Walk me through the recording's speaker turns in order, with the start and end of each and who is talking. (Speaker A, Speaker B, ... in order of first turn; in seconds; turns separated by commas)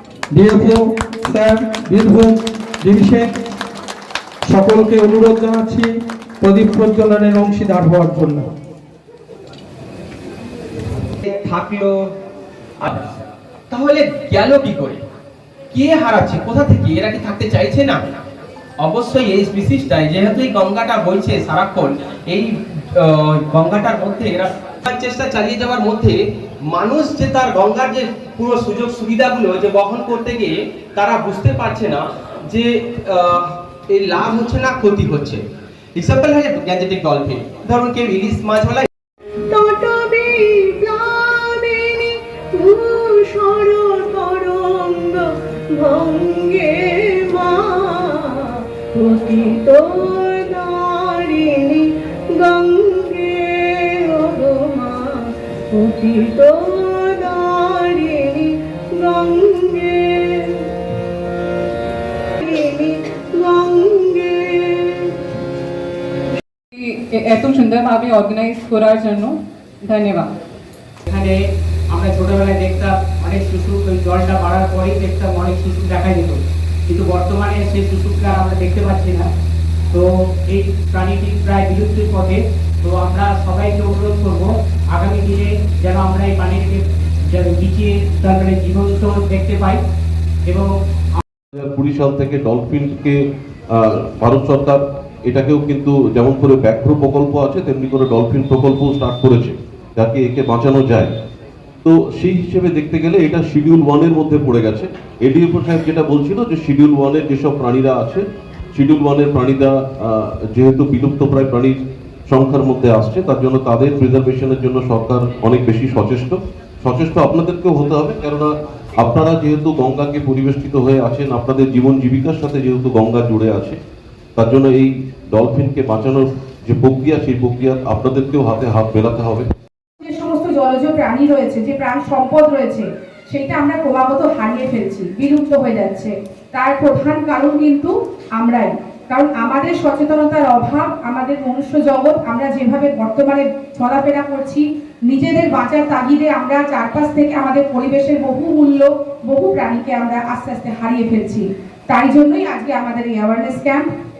Speaker A: 0.3-3.3, Speaker A: 4.5-5.9, Speaker A: 6.4-8.5, Speaker B: 11.2-12.0, Speaker B: 12.8-13.1, Speaker B: 13.7-15.0, Speaker B: 15.7-18.0, Speaker B: 18.8-26.2, Speaker B: 26.7-35.4, Speaker B: 35.9-38.9, Speaker C: 39.5-60.6, Speaker C: 62.4-65.1, Speaker D: 66.7-70.3, Speaker E: 71.1-71.3, Speaker E: 71.9-79.2, Speaker E: 79.9-89.8, Speaker E: 90.5-91.2, Speaker F: 91.5-93.1, Speaker F: 93.7-101.1, Speaker F: 101.8-108.2, Speaker F: 108.7-111.7, Speaker F: 112.3-118.5, Speaker F: 119.0-123.8, Speaker F: 124.4-129.5, Speaker G: 130.0-153.9